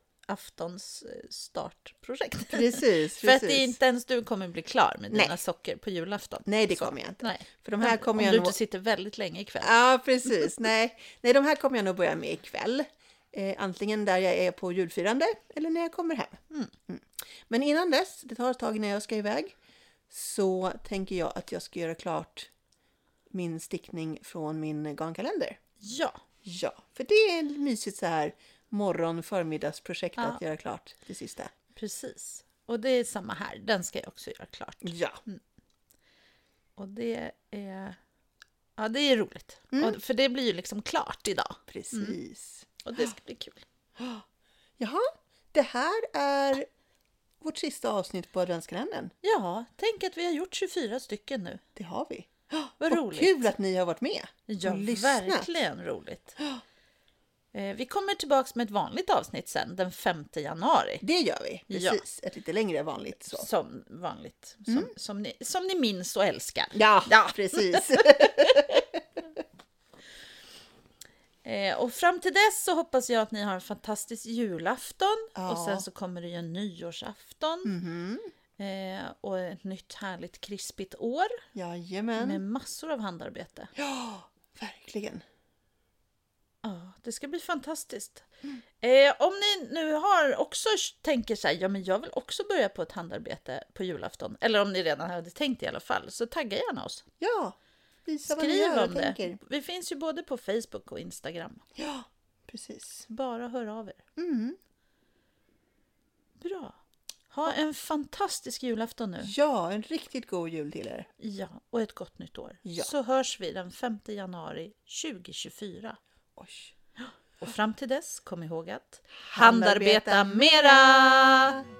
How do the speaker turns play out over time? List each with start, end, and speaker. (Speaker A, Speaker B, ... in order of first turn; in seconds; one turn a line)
Speaker A: 0.2-9.7
Speaker B: 2.5-3.8
Speaker B: 5.1-5.4
Speaker B: 6.5-8.6
Speaker B: 9.6-19.5
Speaker B: 20.1-22.5
Speaker B: 23.3-25.6
Speaker A: 25.8-26.2
Speaker B: 26.4-31.5
Speaker A: 31.8-35.4
Speaker B: 34.8-35.2
Speaker A: 36.8-38.0
Speaker A: 38.8-42.2
Speaker B: 39.7-40.0
Speaker B: 41.7-42.8
Speaker A: 42.8-43.6
Speaker B: 44.0-44.2
Speaker B: 44.8-46.7
Speaker B: 47.4-49.1
Speaker A: 49.2-51.6
Speaker B: 51.7-55.5
Speaker A: 52.8-53.5
Speaker A: 54.5-56.4
Speaker A: 57.5-61.0
Speaker B: 61.0-63.5
Speaker A: 61.7-62.0
Speaker A: 63.2-68.8
Speaker B: 66.7-69.0
Speaker A: 71.4-77.7
Speaker B: 75.3-75.8
Speaker B: 77.6-78.3
Speaker A: 78.6-81.4
Speaker B: 81.5-82.4
Speaker A: 82.2-83.7
Speaker B: 83.8-85.2
Speaker A: 86.6-88.2
Speaker A: 88.8-97.0
Speaker B: 97.2-99.4
Speaker A: 98.2-101.6
Speaker B: 101.8-103.1
Speaker A: 103.1-104.0
Speaker B: 104.2-104.6
Speaker A: 106.4-106.8
Speaker A: 107.3-109.3
Speaker B: 109.2-111.1
Speaker A: 111.2-116.0
Speaker B: 112.6-112.9
Speaker B: 116.4-116.7
Speaker A: 117.4-121.6
Speaker B: 119.3-121.6